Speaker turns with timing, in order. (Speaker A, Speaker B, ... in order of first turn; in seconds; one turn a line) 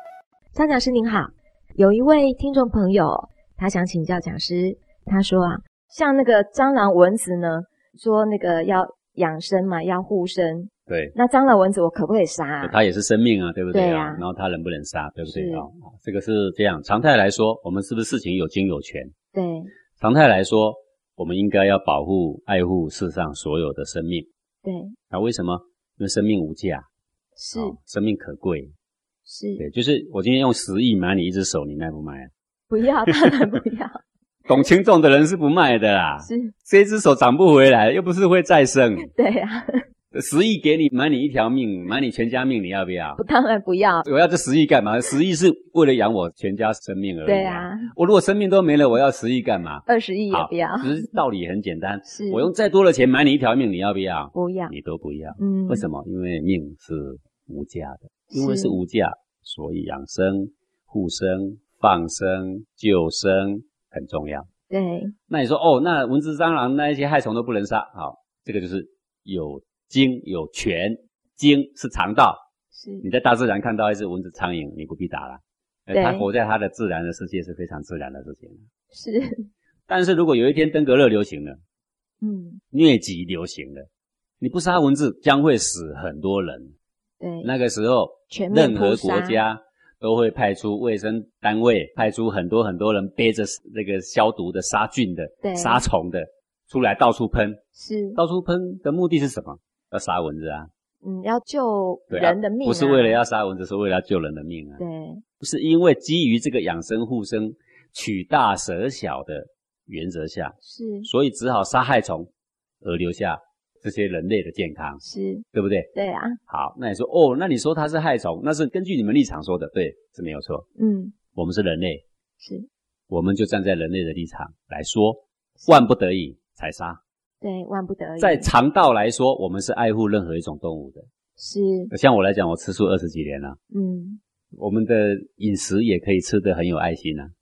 Speaker A: 0.5-12.8
Speaker B: 10.9-11.2
Speaker B: 12.6-19.1
Speaker A: 13.7-14.2
Speaker A: 15.3-15.7
Speaker A: 19.3-19.7
Speaker B: 20.0-24.3
Speaker A: 24.6-25.0
Speaker B: 25.1-26.9
Speaker A: 27.4-27.8
Speaker B: 27.5-28.7
Speaker A: 29.2-29.6
Speaker B: 29.6-32.3
Speaker A: 32.7-34.0
Speaker B: 34.5-39.1
Speaker A: 36.2-36.5
Speaker A: 39.0-39.8
Speaker B: 40.1-43.2
Speaker A: 43.2-44.1
Speaker B: 44.0-64.5
Speaker A: 47.2-47.9
Speaker A: 49.9-51.0
Speaker A: 52.1-52.5
Speaker A: 54.3-54.7
Speaker A: 55.4-55.9
Speaker A: 58.3-58.8
Speaker A: 64.7-65.1
Speaker B: 65.3-72.4
Speaker A: 72.7-73.1
Speaker B: 73.0-78.7
Speaker A: 75.9-76.3
Speaker A: 78.9-79.5
Speaker B: 79.9-81.6
Speaker A: 82.2-82.6
Speaker B: 82.7-83.9
Speaker B: 84.4-86.8
Speaker A: 87.2-87.5
Speaker B: 87.4-97.6
Speaker A: 88.3-89.4
Speaker A: 95.4-95.8
Speaker A: 97.8-98.2
Speaker B: 98.2-100.7
Speaker A: 101.0-103.2
Speaker B: 102.1-104.8
Speaker A: 104.8-105.2
Speaker B: 105.4-112.3
Speaker A: 110.6-111.1
Speaker B: 112.8-115.0
Speaker A: 115.0-116.4
Speaker B: 115.5-115.9
Speaker B: 116.5-120.7
Speaker A: 120.8-121.1
Speaker B: 121.4-122.0
Speaker A: 122.4-122.7
Speaker B: 123.1-127.0
Speaker A: 125.6-125.9
Speaker A: 127.4-128.5
Speaker B: 128.2-131.1
Speaker A: 131.4-131.9
Speaker B: 131.9-133.6
Speaker A: 133.7-134.2
Speaker B: 134.6-137.3